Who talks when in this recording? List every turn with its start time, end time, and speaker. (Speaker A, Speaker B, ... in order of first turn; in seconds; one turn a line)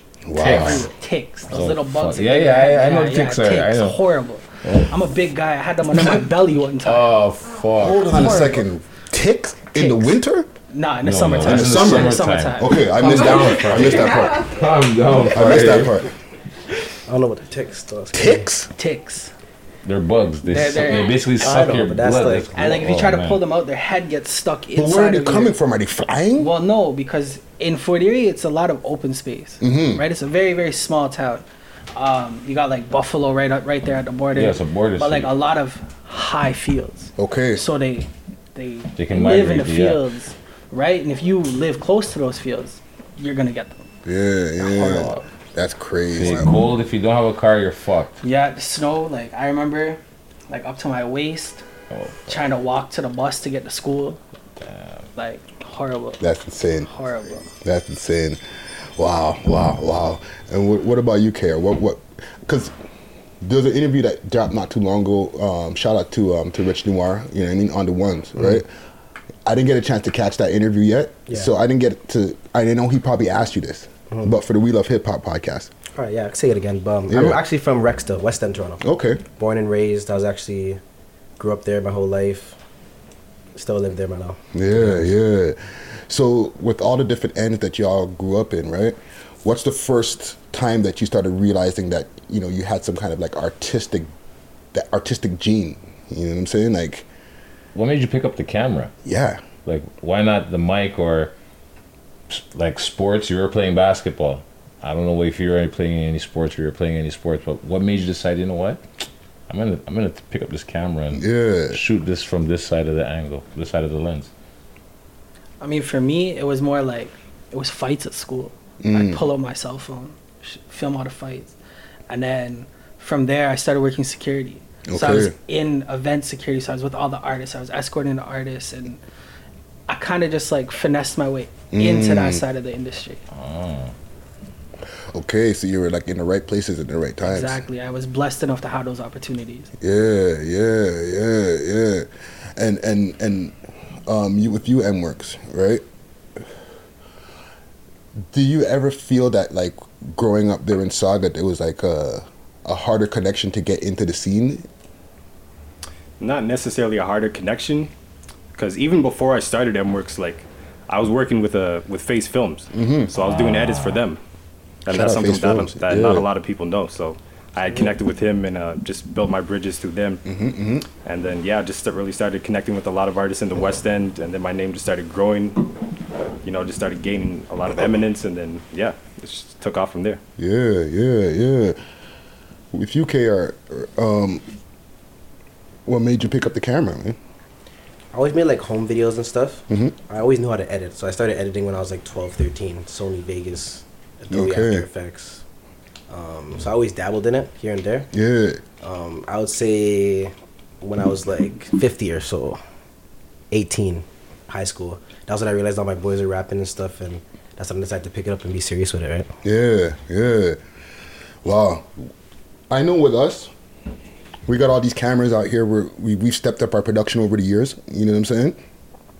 Speaker A: 0.2-0.9
Speaker B: 0.4-0.9
Speaker C: 0.4-7.2
Speaker B: 1.5-4.0
Speaker B: 6.8-8.3
Speaker A: 7.8-10.5
Speaker C: 9.8-10.2
Speaker C: 10.7-13.9
Speaker B: 11.0-15.9
Speaker A: 11.4-14.5
Speaker A: 15.3-16.1
Speaker D: 17.1-18.4
Speaker A: 18.1-18.7
Speaker C: 18.8-19.3
Speaker B: 19.9-23.4
Speaker C: 20.5-21.6
Speaker D: 21.4-22.6
Speaker C: 22.5-25.5
Speaker A: 24.7-26.5
Speaker C: 26.4-31.4
Speaker A: 29.6-30.0
Speaker C: 31.9-43.9
Speaker B: 34.3-35.3
Speaker A: 37.2-37.6
Speaker B: 39.0-40.0
Speaker A: 44.0-46.5
Speaker C: 44.6-45.3
Speaker B: 46.1-48.2
Speaker C: 48.2-51.6
Speaker B: 51.9-52.4
Speaker C: 52.3-54.2
Speaker B: 54.6-55.0
Speaker C: 55.1-56.2
Speaker A: 56.2-56.9
Speaker C: 56.9-57.5
Speaker A: 57.6-58.4
Speaker A: 59.0-62.7
Speaker A: 63.4-68.7
Speaker A: 69.5-75.7
Speaker D: 75.9-78.8
Speaker A: 77.1-77.4
Speaker A: 78.8-79.2
Speaker D: 79.4-80.8
Speaker D: 81.4-82.6
Speaker D: 83.5-85.1
Speaker A: 84.5-94.1
Speaker A: 94.7-97.1
Speaker B: 97.7-98.9
Speaker A: 99.0-99.4
Speaker B: 99.6-101.3
Speaker B: 102.3-108.8
Speaker B: 109.5-114.3
Speaker A: 111.1-111.8
Speaker C: 115.6-121.5
Speaker A: 118.8-119.2
Speaker C: 122.1-129.0
Speaker A: 124.9-125.3
Speaker C: 129.9-133.2
Speaker A: 131.7-132.4
Speaker B: 133.3-133.9
Speaker A: 135.1-137.6
Speaker C: 137.2-139.7
Speaker A: 139.8-145.8
Speaker A: 148.3-154.7
Speaker E: 156.2-157.9
Speaker E: 158.5-164.2
Speaker A: 162.7-163.1
Speaker E: 164.8-170.2
Speaker A: 164.9-166.2
Speaker A: 170.2-170.9
Speaker E: 171.0-175.7
Speaker E: 176.4-180.2
Speaker A: 180.4-181.8
Speaker A: 182.7-184.4
Speaker A: 185.8-187.2
Speaker D: 188.1-195.4
Speaker A: 189.7-190.0
Speaker A: 194.3-194.8
Speaker D: 196.1-198.1
Speaker A: 198.1-198.6
Speaker D: 198.8-202.6
Speaker D: 203.5-209.3
Speaker A: 209.4-210.6
Speaker A: 211.4-212.0
Speaker A: 212.7-213.5
Speaker A: 214.5-218.6